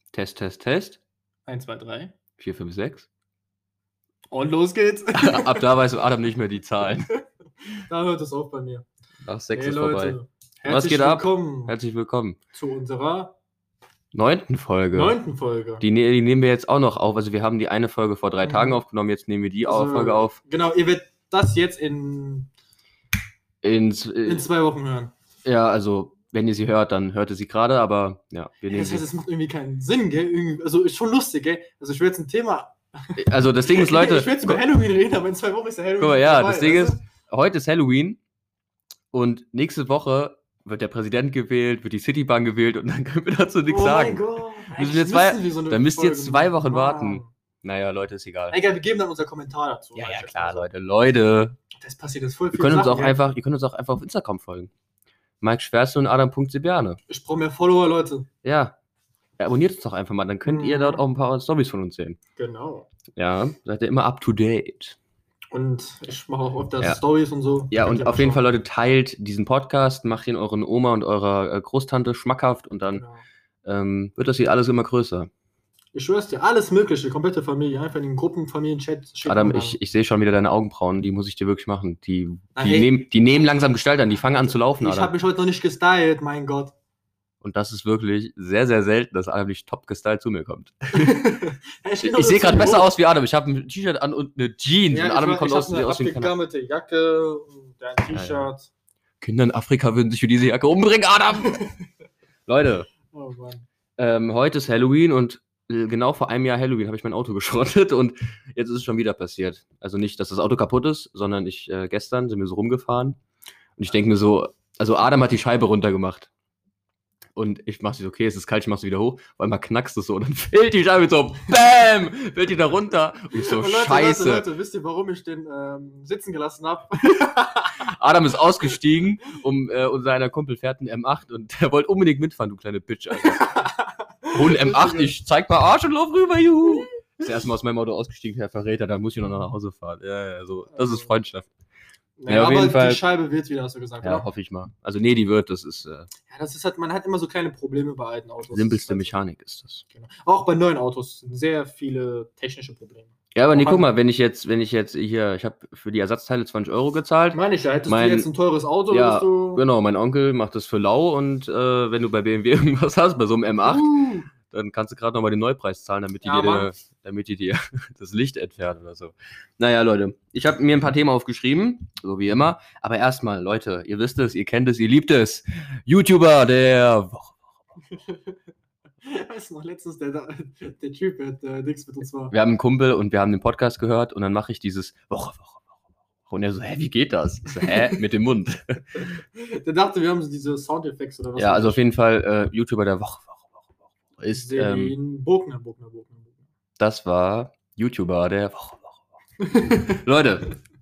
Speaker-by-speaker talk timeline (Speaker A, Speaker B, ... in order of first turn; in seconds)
Speaker A: 0.1-1.0, 2.4-3.1, 5.2-7.1, 9.2-12.4, 14.1-15.2, 15.8-20.4, 23.6-24.5, 25.4-29.0, 33.2-34.6, 36.0-38.2, 39.1-48.6, 50.0-51.6, 52.5-54.7, 55.4-57.0, 58.4-58.8, 59.4-62.2, 63.2-65.0, 67.7-73.0, 73.7-75.3, 79.3-85.1, 87.4-91.2, 92.0-96.3, 98.1-98.5, 99.2-101.6, 102.5-102.9, 104.0-113.2, 113.8-116.3, 117.4-124.5, 127.8-133.4, 134.3-141.5, 142.3-143.0, 144.0-146.1, 148.5-149.8, 153.3-158.3, 158.9-177.4, 182.3-185.6, 186.3-189.1, 191.4-193.6, 194.2-194.9, 196.8-198.9, 199.6-200.5
Speaker B: 1.5-2.1, 4.3-5.7, 7.9-8.9, 9.5-11.8, 12.5-13.3, 14.9-15.8, 18.4-18.8, 19.6-22.5, 24.2-25.1, 28.7-37.0, 43.7-47.3, 48.5-50.7, 51.8-53.2, 57.1-58.3, 60.5-61.0, 62.4-62.9, 65.5-68.4, 73.0-73.2, 75.9-79.8, 82.5-83.0, 84.5-86.7, 90.9-92.9, 94.9-98.7, 103.1-103.7, 123.3-127.9, 133.2-135.1, 140.7-141.1, 142.2-144.3, 146.3-149.2, 149.9-153.9, 157.3-159.6, 163.7-164.3, 166.2-166.7, 177.9-178.3, 179.1-182.3, 189.4-191.8, 194.3-196.4, 199.4-200.0